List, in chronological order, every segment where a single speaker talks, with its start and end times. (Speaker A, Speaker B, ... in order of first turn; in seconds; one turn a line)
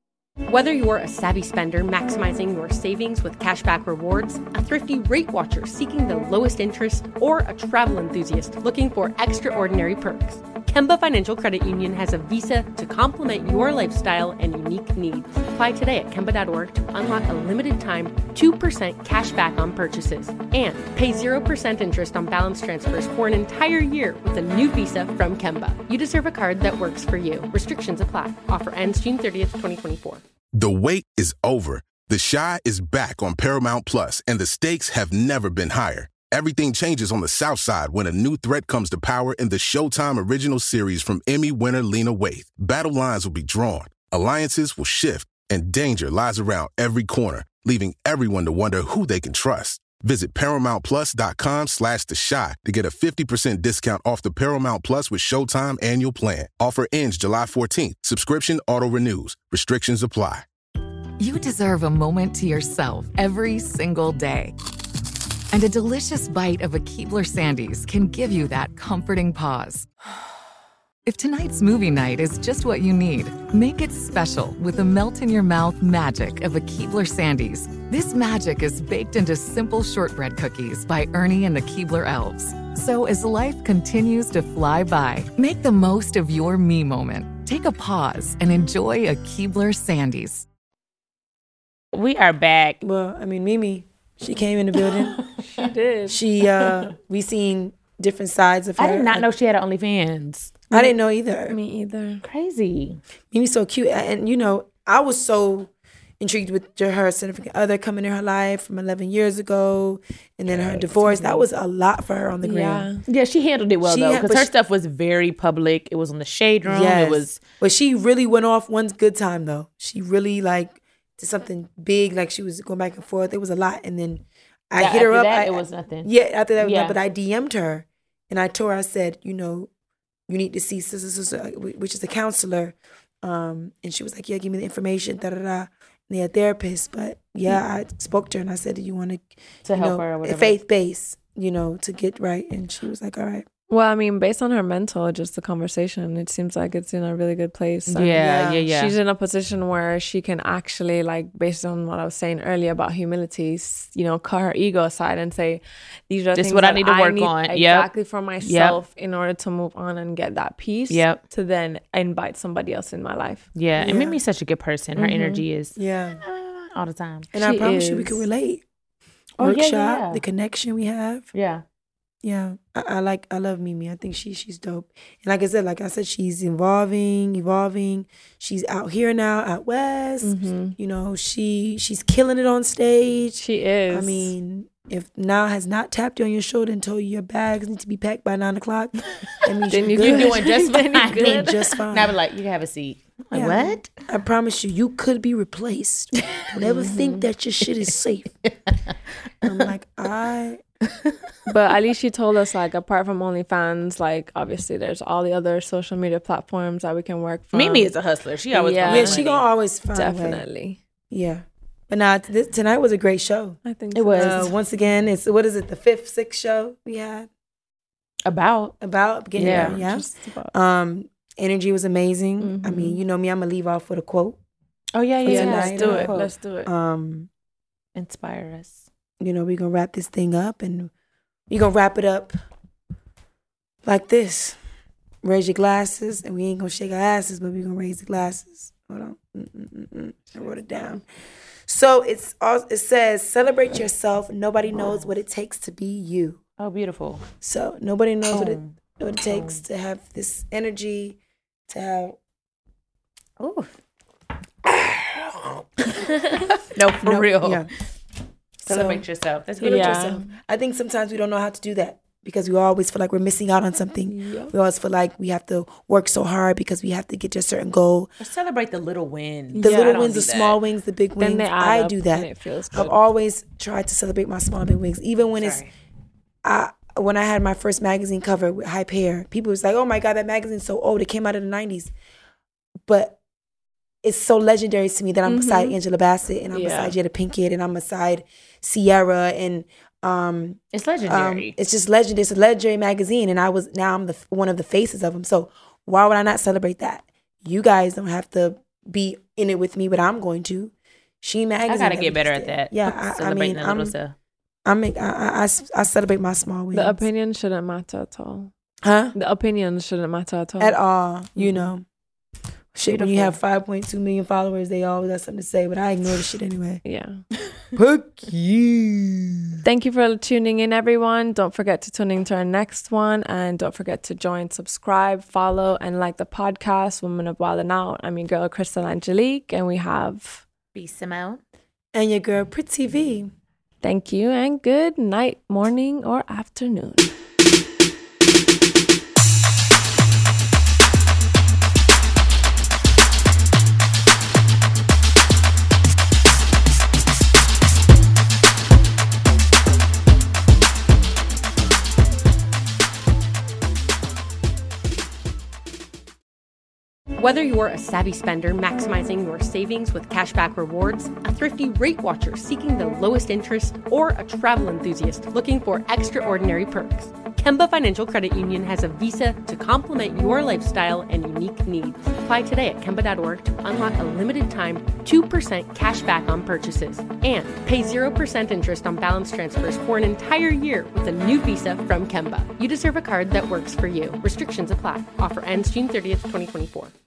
Speaker A: 0.5-30.2
Speaker B: 30.5-60.5
Speaker C: 61.2-64.5
Speaker C: 65.5-69.9
Speaker C: 71.0-90.5
Speaker D: 91.9-92.8
Speaker E: 92.8-95.2
Speaker F: 95.5-96.2
Speaker E: 96.1-99.3
Speaker D: 98.8-100.7
Speaker E: 100.7-101.6
Speaker F: 101.5-102.2
Speaker D: 102.2-103.0
Speaker E: 103.3-112.9
Speaker F: 110.6-111.4
Speaker F: 112.4-113.0
Speaker D: 113.1-117.4
Speaker E: 113.8-114.5
Speaker E: 116.6-129.7
Speaker D: 124.8-127.0
Speaker E: 130.3-143.4
Speaker D: 139.7-140.6
Speaker F: 143.7-163.5
Speaker D: 147.9-148.9
Speaker E: 148.2-148.7
Speaker D: 156.3-158.8
Speaker D: 160.9-161.2
Speaker D: 163.5-167.3
Speaker E: 163.8-164.2
Speaker F: 164.9-165.4
Speaker E: 165.8-166.2
Speaker E: 167.3-168.6
Speaker F: 167.3-168.2
Speaker D: 169.4-170.2
Speaker E: 169.4-171.3
Speaker D: 171.3-171.6
Speaker E: 172.2-190.5
Speaker F: 180.2-180.7
Speaker F: 183.4-184.3
Speaker F: 189.7-191.8
Speaker D: 189.9-193.9
Speaker E: 191.1-192.1
Speaker E: 193.3-198.4
Speaker F: 196.6-197.3
Speaker E: 199.4-200.6
Speaker F: 201.5-207.9
Speaker D: 207.5-209.4
Speaker F: 208.5-209.2
Speaker E: 208.8-210.4
Speaker F: 209.9-210.8
Speaker E: 211.1-213.6
Speaker F: 213.6-214.6
Speaker D: 213.9-214.5
Speaker E: 214.1-217.3
Speaker D: 218.2-218.7
Speaker E: 218.8-224.4
Speaker F: 219.3-220.5
Speaker D: 219.4-219.8
Speaker F: 222.4-223.0
Speaker D: 224.9-226.3
Speaker E: 225.2-227.3
Speaker F: 225.2-226.7
Speaker D: 227.9-228.8
Speaker E: 229.2-230.9
Speaker E: 231.5-232.3
Speaker E: 233.8-234.6
Speaker E: 235.2-241.0
Speaker E: 241.7-246.4
Speaker D: 246.6-247.2
Speaker E: 247.4-251.2
Speaker D: 248.3-248.7
Speaker D: 249.3-249.6
Speaker E: 251.7-252.2
Speaker D: 253.4-253.7
Speaker D: 256.0-257.6
Speaker E: 257.0-257.7
Speaker E: 258.6-268.1
Speaker D: 258.7-260.2
Speaker F: 259.6-260.3
Speaker F: 264.1-264.5
Speaker D: 268.2-270.6
Speaker F: 269.5-270.2
Speaker E: 269.6-275.6
Speaker F: 271.2-273.0
Speaker D: 275.4-275.7
Speaker E: 276.4-281.9
Speaker E: 282.9-283.2
Speaker E: 284.0-303.9
Speaker F: 285.2-285.8
Speaker F: 286.5-286.9
Speaker D: 290.7-291.5
Speaker D: 301.7-304.1
Speaker E: 304.6-307.0
Speaker F: 306.7-308.5
Speaker E: 308.8-309.1
Speaker F: 309.1-310.8
Speaker E: 310.6-311.8
Speaker F: 311.4-311.7
Speaker E: 312.7-316.8
Speaker F: 312.9-313.3
Speaker F: 316.8-317.2
Speaker E: 317.8-319.5
Speaker F: 319.6-330.4
Speaker D: 330.7-331.4
Speaker E: 331.9-333.3
Speaker F: 333.8-337.1
Speaker A: 357.2-386.9